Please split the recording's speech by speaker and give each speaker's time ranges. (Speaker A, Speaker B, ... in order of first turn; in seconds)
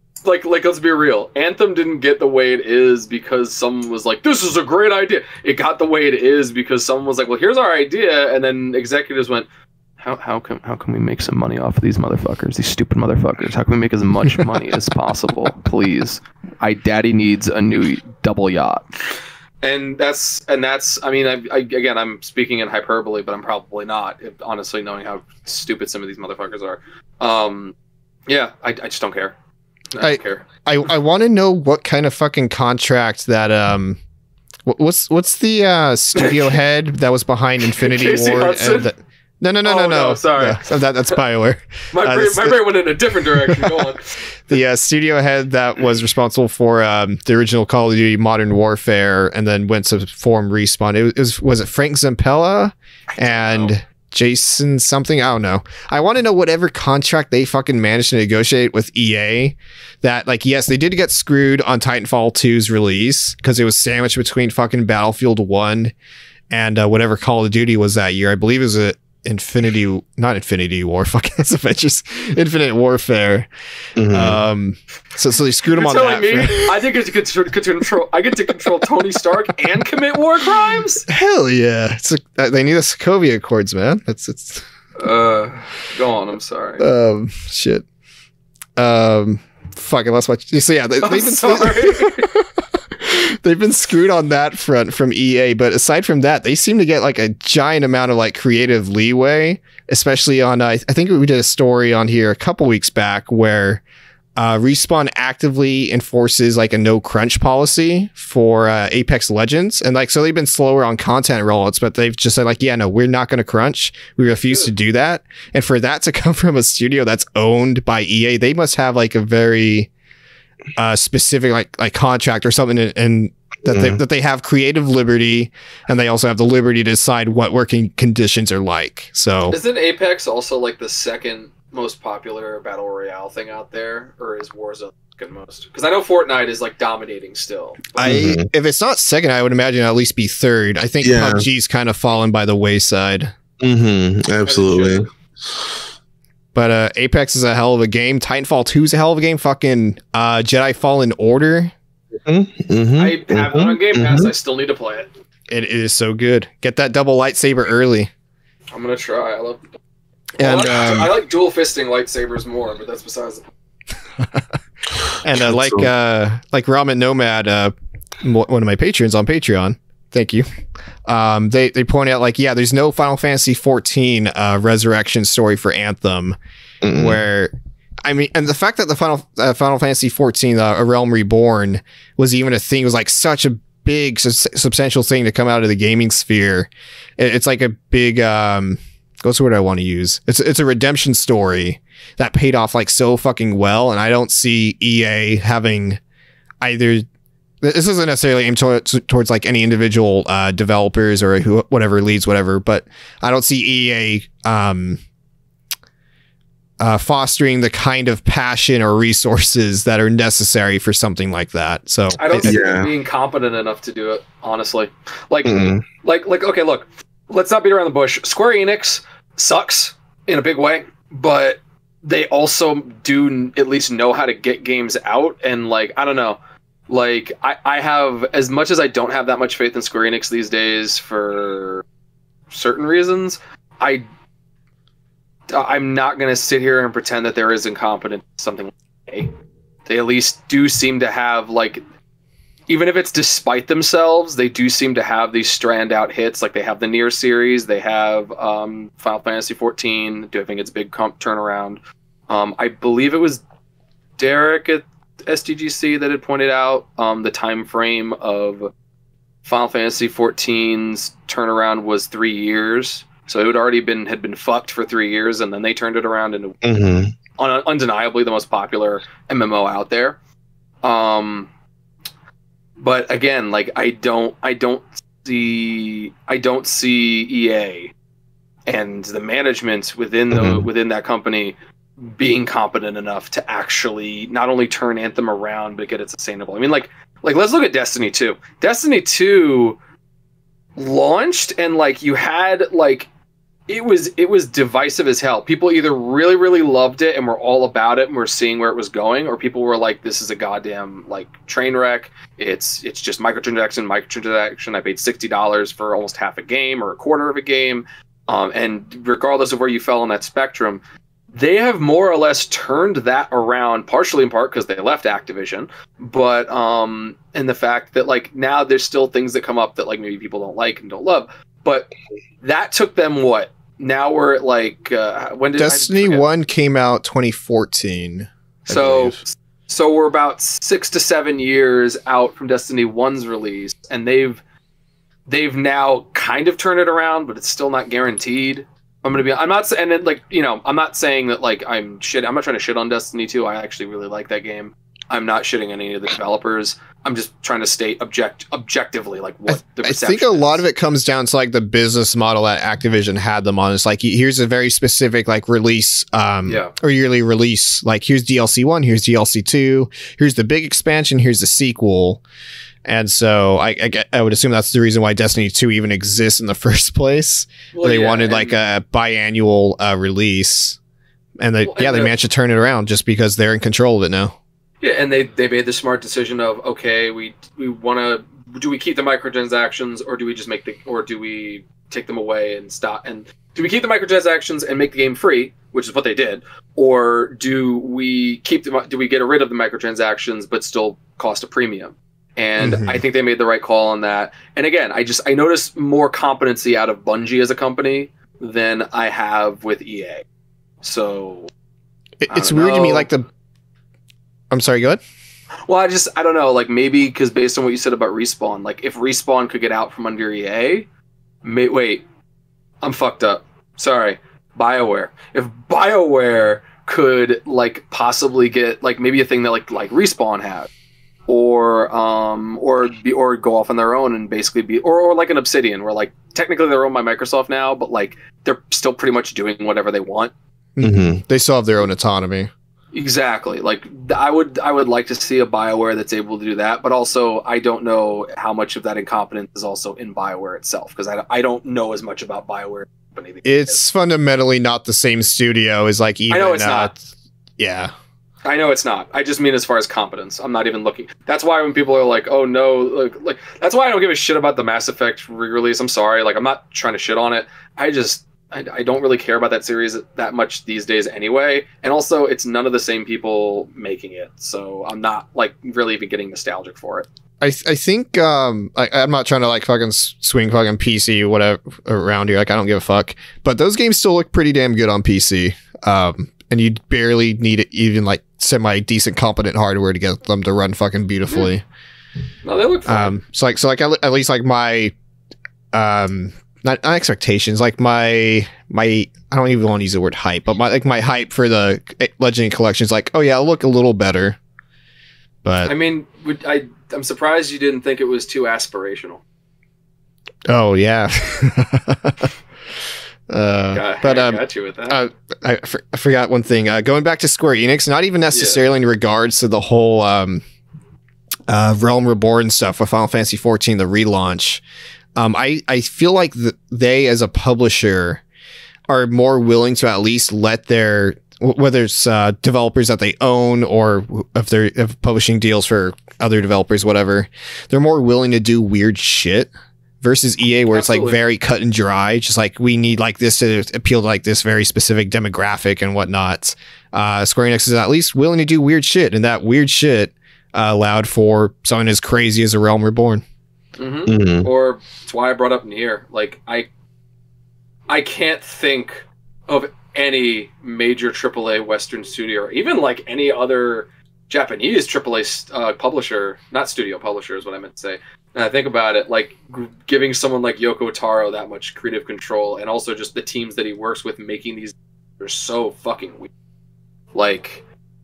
Speaker A: 0.2-9.5, 10.0-27.7, 28.3-29.3, 29.9-30.5, 36.1-36.4, 37.8-38.9, 39.6-41.2, 41.9-44.0, 53.1-53.7, 75.7-81.0, 85.0-86.8, 91.0-92.2, 129.5-138.1, 144.4-145.1, 153.0-155.1, 158.7-159.7, 160.4-163.5, 212.2-231.8, 232.5-234.1, 235.5-239.3, 239.9-241.8, 242.7-253.4, 254.2-258.7, 259.4-266.6, 267.4-270.2, 270.8-271.5, 272.8-277.9, 278.7-281.5, 282.1-289.8, 290.8-293.1, 293.7-310.8, 311.3-326.3, 328.6-334.4, 335.3-350.6, 356.4-356.7, 367.7-368.6, 371.6-372.1, 374.8-400.2, 400.8-401.5, 402.3-403.1, 405.7-410.9, 411.4-412.0, 412.8-420.7, 421.3-430.3, 432.9-443.8, 446.3-446.9, 448.4-467.1, 482.4-483.2, 495.6-499.2, 503.7-505.0, 508.3-508.6, 530.7-531.2, 543.8-546.7, 547.9-566.3, 567.1-567.6
Speaker B: 30.0-34.0, 34.6-42.6, 44.5-65.9, 66.5-73.5, 74.1-76.8, 81.1-84.6, 86.8-87.8, 88.8-103.8, 104.4-119.9, 120.8-129.6, 137.9-143.3, 146.5-151.7, 155.5-158.1, 160.4-161.1, 165.2-170.4, 171.1-176.4, 176.9-177.5, 178.0-196.0, 196.6-197.0, 197.6-205.0, 206.8-212.6, 325.6-329.2, 349.5-362.2, 362.9-370.8, 371.4-374.4, 392.6-393.0, 402.2-403.3, 404.5-405.0, 430.8-432.5, 443.4-447.0, 447.6-447.9, 467.4-481.6, 482.9-484.9, 485.7-494.4, 495.4-495.7, 500.5-502.3, 503.3-510.4, 511.5-514.6, 515.1-518.2, 518.9-543.2
Speaker C: 74.0-74.4, 123.7-124.0, 138.0-138.5, 141.0-141.5, 143.6-145.1, 152.2-154.3, 165.3-165.9, 176.8-177.2, 212.4-212.9, 215.4-215.8, 266.6-267.1, 280.3-280.6, 430.8-431.2, 544.1-544.5